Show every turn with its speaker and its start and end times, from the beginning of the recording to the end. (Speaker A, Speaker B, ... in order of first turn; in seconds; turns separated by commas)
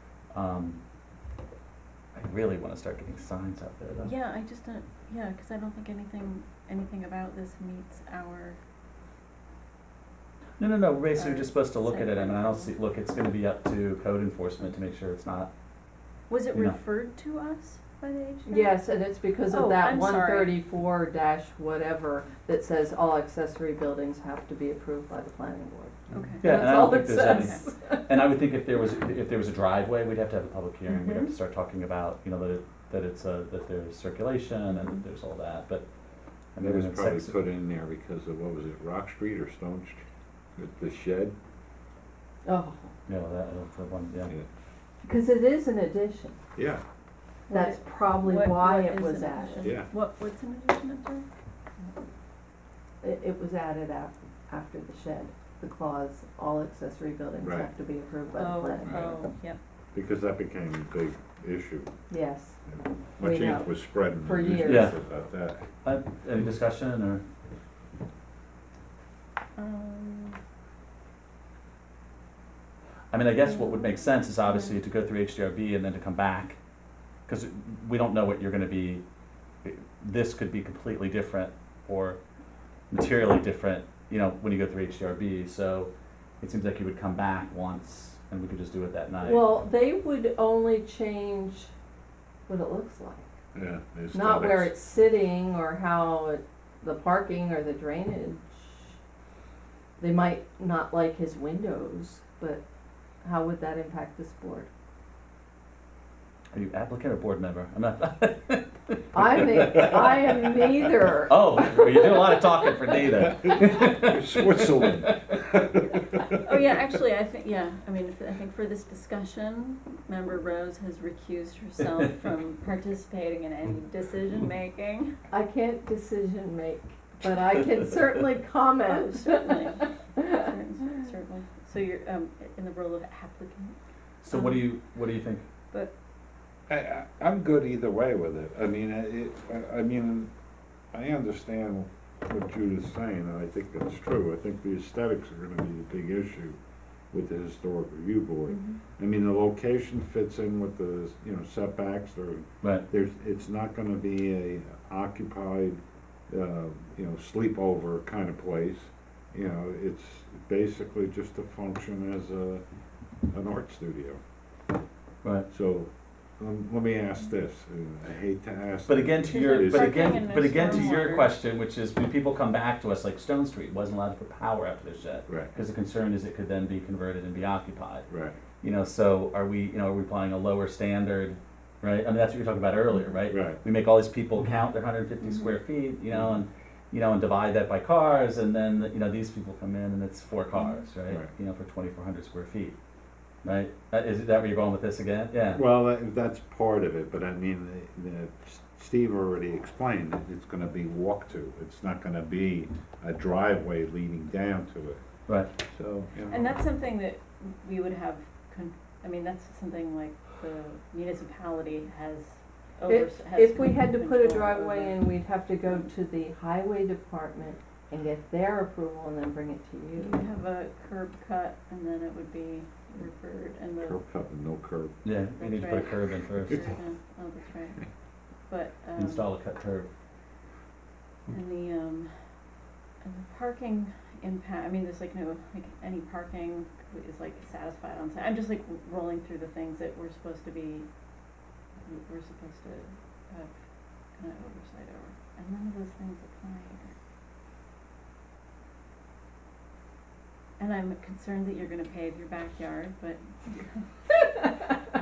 Speaker A: 0.3-0.8, Speaker A: 2.1-4.1, Speaker B: 4.0-8.6, Speaker A: 10.6-15.5, Speaker B: 11.1-12.7, Speaker B: 16.3-18.8, Speaker A: 16.5-16.8, Speaker C: 18.5-28.1, Speaker B: 19.5-20.6, Speaker B: 26.1-27.6, Speaker A: 26.4-35.9, Speaker B: 30.9-31.3, Speaker A: 36.5-37.3, Speaker D: 36.6-40.0, Speaker D: 40.5-41.4, Speaker C: 42.4-42.9, Speaker A: 43.1-44.3, Speaker C: 45.0-46.4, Speaker D: 46.5-46.8, Speaker B: 47.5-51.2, Speaker C: 47.5-49.8, Speaker D: 49.6-49.9, Speaker C: 53.0-59.2, Speaker D: 57.4-57.7, Speaker B: 58.3-59.6, Speaker D: 58.8-59.2, Speaker D: 59.9-61.9, Speaker C: 62.1-64.9, Speaker D: 62.7-65.6, Speaker A: 64.6-64.9, Speaker A: 65.8-67.2, Speaker B: 69.5-70.4, Speaker A: 73.1-76.6, Speaker B: 73.5-74.8, Speaker A: 77.2-79.0, Speaker A: 79.6-82.2, Speaker A: 82.9-89.5, Speaker C: 89.2-91.7, Speaker C: 92.5-93.2, Speaker D: 93.5-94.7, Speaker C: 94.1-99.0, Speaker C: 100.0-102.6, Speaker C: 103.2-104.7, Speaker A: 106.5-108.8, Speaker C: 109.1-113.2, Speaker A: 111.2-115.2, Speaker D: 113.4-116.4, Speaker B: 116.4-125.1, Speaker C: 125.3-129.7, Speaker B: 128.8-133.8, Speaker A: 134.2-135.4, Speaker B: 134.3-134.7, Speaker D: 136.7-140.3, Speaker D: 140.9-146.6, Speaker D: 147.1-162.6, Speaker C: 148.5-148.7, Speaker D: 163.3-164.2, Speaker A: 165.2-165.5, Speaker D: 165.5-170.8, Speaker A: 168.9-178.1, Speaker B: 169.3-171.3, Speaker D: 175.3-175.5, Speaker D: 178.1-178.4, Speaker A: 178.6-192.7, Speaker D: 183.3-183.6, Speaker B: 190.6-190.8, Speaker A: 193.4-195.6, Speaker D: 195.5-205.0, Speaker D: 205.6-206.6, Speaker B: 206.3-215.8, Speaker C: 212.9-220.2, Speaker B: 220.0-224.0, Speaker D: 223.8-225.0, Speaker A: 225.0-226.7, Speaker B: 225.4-227.8, Speaker B: 228.5-229.2, Speaker A: 228.9-229.9, Speaker B: 231.3-232.1, Speaker B: 233.0-240.9, Speaker B: 241.8-243.5, Speaker B: 244.2-246.9, Speaker B: 250.6-253.8